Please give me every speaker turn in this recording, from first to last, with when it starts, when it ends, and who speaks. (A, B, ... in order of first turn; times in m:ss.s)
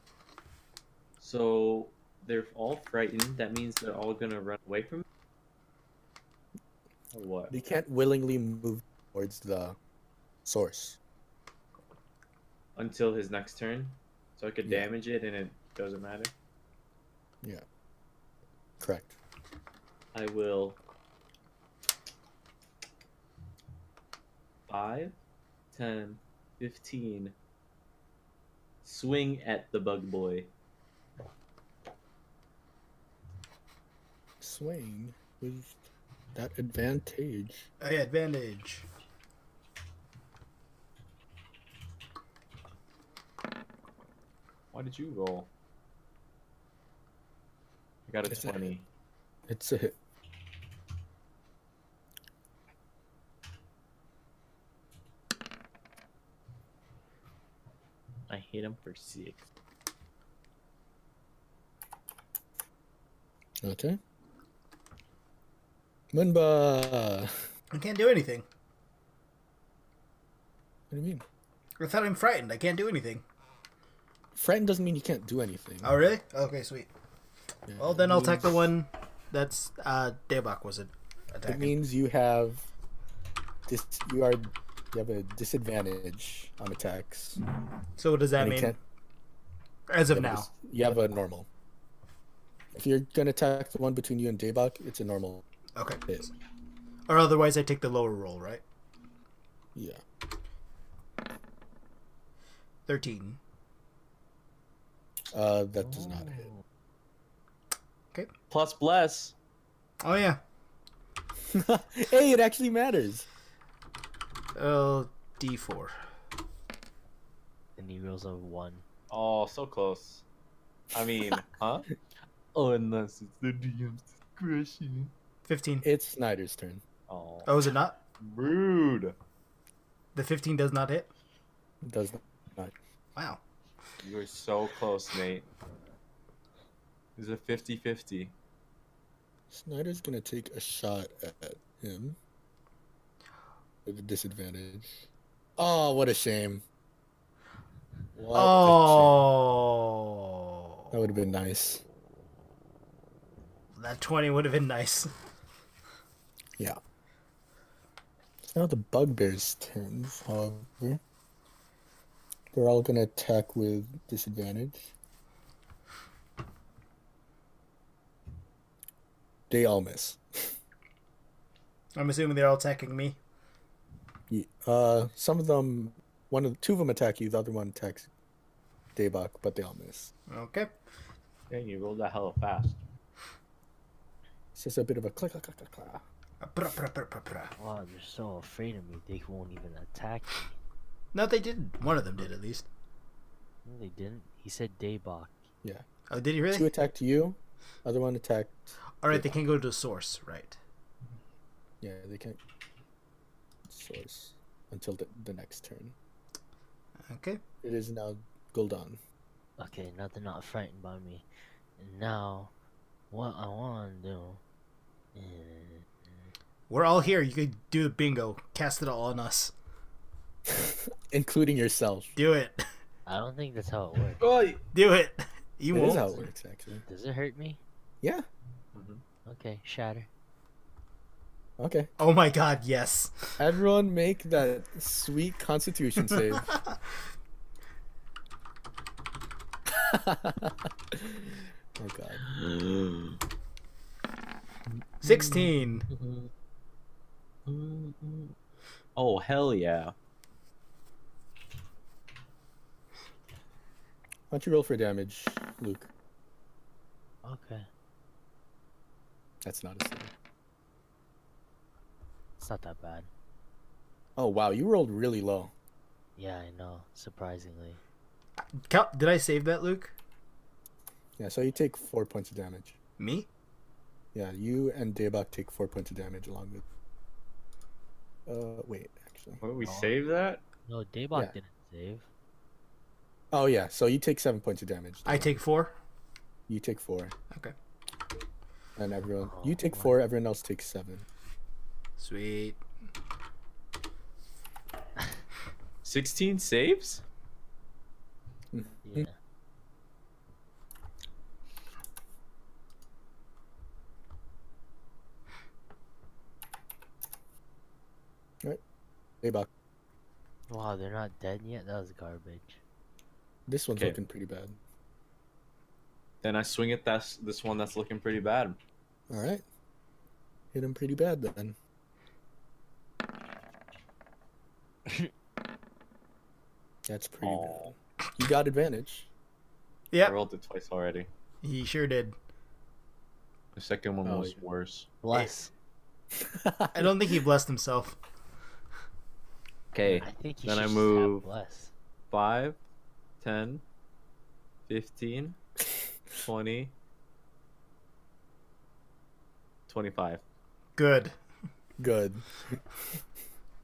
0:01.2-0:05.0 A
0:07.1-0:07.5 A
0:07.5-0:09.8 B
0:10.4-0:11.0 B
0:12.8-0:16.3 A
0:18.8-0:19.2 B
0:20.1-0:20.8 A
0:24.7-0:25.2 A
0:25.7-0:27.3 A
0:28.8-0:30.5 A
0:34.4-0:35.8 B
0:36.3-0:37.7 B
0:37.8-0:38.8 C
0:44.7-0:45.5 A
0:48.1-0:48.8 A
0:48.3-0:48.7 B
0:49.5-0:49.9 B
0:58.3-0:59.5 A
1:03.6-1:04.0 B
1:06.1-1:07.3 B
1:07.7-1:08.4 C
1:10.9-1:11.2 B
1:11.8-1:13.2 C
1:14.3-1:16.0 B
1:15.8-1:16.9 C
1:17.7-1:18.7 B
1:17.8-1:21.7 C
1:21.5-1:22.6 B
1:23.7-1:27.4 B
1:28.0-1:28.7 C
1:28.4-1:28.8 B
1:29.9-1:30.5 C
1:30.1-1:31.5 B
1:32.7-1:35.4 B
1:35.8-1:36.0 C
1:37.1-1:38.6 C
1:39.7-1:40.0 B
1:42.9-1:43.4 C
1:45.3-1:46.5 B
1:45.8-1:46.6 D
1:48.5-1:49.3 A
1:50.0-1:50.4 C
1:51.5-1:53.2 B
1:54.5-1:55.9 C
1:57.8-1:58.8 D
1:59.1-2:00.2 A
2:00.9-2:01.9 A
2:02.5-2:05.1 A
2:05.5-2:05.8 C
2:05.8-2:06.8 B
2:07.1-2:07.5 A
2:07.4-2:08.0 C
2:08.2-2:09.2 A
2:10.1-2:11.1 C
2:11.8-2:12.7 B
2:14.0-2:15.5 A
2:17.2-2:18.3 A
2:19.5-2:22.2 B
2:23.8-2:25.0 B
2:25.6-2:26.6 B
2:28.1-2:29.3 B
2:28.3-2:30.7 C
2:30.9-2:31.8 B
2:33.7-2:35.1 C
2:38.4-2:41.0 B
2:42.5-2:44.9 B
2:49.5-2:50.5 B
2:52.0-2:53.2 C
2:54.3-2:58.1 B
2:59.0-3:00.1 B
3:00.3-3:00.7 C
3:01.5-3:02.8 A
3:04.5-3:06.0 B
3:06.4-3:07.5 C
3:07.6-3:10.6 D
3:11.1-3:12.7 C
3:13.6-3:15.4 D
3:16.1-3:16.7 C
3:16.5-3:18.6 B
3:19.0-3:20.6 C
3:19.1-3:19.4 B
3:21.8-3:22.4 B
3:23.7-3:25.9 B
3:27.1-3:27.4 C
3:27.6-3:29.0 B
3:29.6-3:31.2 D
3:31.8-3:32.5 D
3:33.1-3:34.4 D
3:35.1-3:36.3 D
3:36.7-3:39.5 C
3:40.5-3:42.1 B
3:42.2-3:42.6 C
3:43.0-3:44.2 D
3:44.2-3:44.6 A
3:44.7-3:46.2 C
3:45.7-3:46.8 B
3:46.9-3:47.6 D
3:48.7-3:49.0 A
3:49.2-3:50.1 D
3:51.6-3:51.9 B
3:52.0-3:53.4 C
3:53.4-3:56.5 B
3:59.7-4:02.3 B
4:02.2-4:03.2 A
4:05.0-4:05.9 C
4:05.0-4:06.3 A
4:07.4-4:08.3 A
4:09.0-4:09.9 A
4:14.3-4:15.9 B
4:17.2-4:17.7 D
4:19.4-4:20.1 B
4:22.4-4:23.1 D
4:24.2-4:25.5 B
4:26.2-4:27.8 D
4:28.6-4:29.9 C
4:31.2-4:32.8 B
4:33.0-4:33.3 C
4:34.1-4:36.6 B
4:38.3-4:39.4 B
4:39.4-4:40.4 A
4:39.6-4:40.0 D
4:40.6-4:42.1 D
4:43.3-4:45.3 B
4:45.0-4:45.7 C
4:46.5-4:47.1 B
4:48.8-4:51.0 B
4:49.2-4:50.0 D
4:52.0-4:52.6 C
4:55.8-4:57.0 A
4:58.5-4:59.1 B
4:58.8-4:59.1 D
5:09.2-5:09.5 B
5:10.5-5:12.6 D
5:13.5-5:14.6 B
5:16.2-5:18.6 A
5:19.1-5:19.4 B
5:20.5-5:21.6 B
5:26.9-5:29.1 B
5:27.2-5:27.7 A
5:30.0-5:31.1 A
5:31.4-5:32.1 C
5:33.5-5:34.9 A
5:34.0-5:34.4 B
5:35.0-5:35.5 D
5:36.2-5:36.9 B
5:36.7-5:38.0 C
5:39.7-5:41.2 A
5:39.9-5:41.7 D
5:42.1-5:42.6 A
5:43.2-5:43.6 A
5:44.7-5:45.4 A
5:46.2-5:46.7 A
5:49.7-5:50.2 A
5:50.8-5:51.1 C
5:51.8-5:52.6 B